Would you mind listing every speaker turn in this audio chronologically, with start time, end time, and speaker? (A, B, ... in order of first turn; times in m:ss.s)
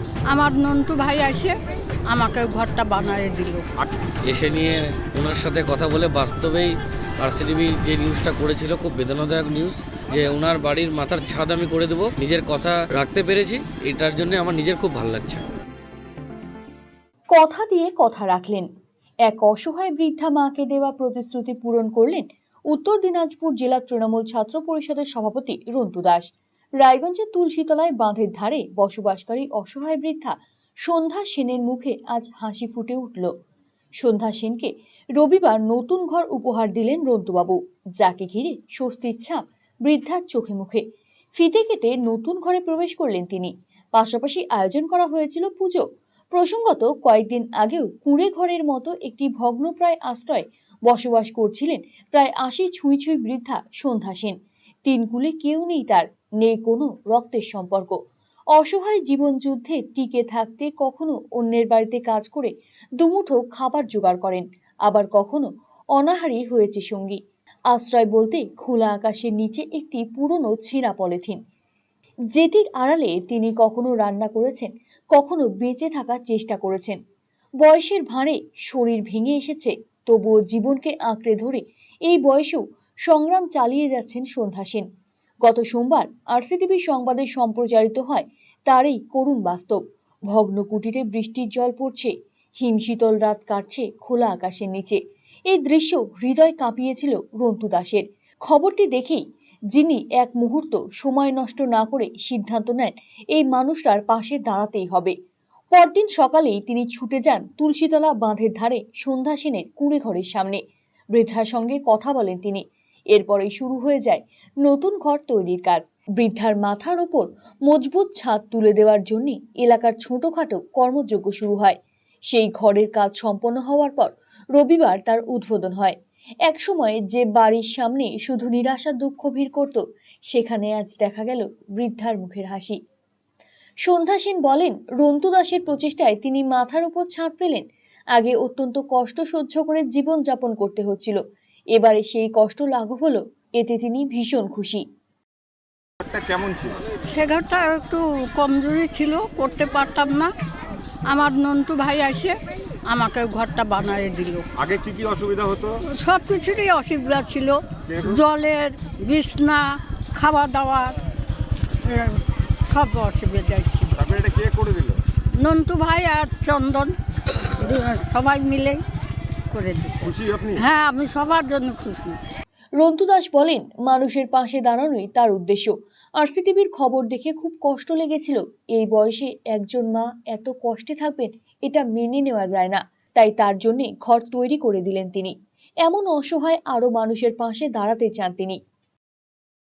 0:00.3-0:01.6 A
0:02.1-0:03.6 A
0:04.3-0:15.4 B
0:17.3-0:18.7 C
0:19.3-0:33.3 C
0:34.0-0:40.8 C
0:41.4-0:58.0 C
0:58.5-1:07.2 C
1:07.7-1:11.4 C
1:12.3-1:17.0 C
1:17.6-1:24.9 C
1:25.4-1:29.8 C
1:30.3-1:45.1 C
1:45.7-1:50.6 C
1:51.1-2:01.8 C
2:02.3-2:06.0 C
2:06.5-2:12.8 C
2:13.8-2:21.2 C
2:21.7-2:24.8 C
2:26.0-2:26.8 D
2:27.1-2:30.3 A
2:31.1-2:32.4 A
2:32.9-2:34.5 A
2:34.6-2:35.8 D
2:35.9-2:41.0 A
2:37.9-2:38.2 D
2:41.8-2:44.0 A
2:44.0-2:45.0 D
2:45.4-2:48.8 A
2:49.5-2:52.2 A
2:50.0-2:50.6 D
2:52.8-3:08.6 C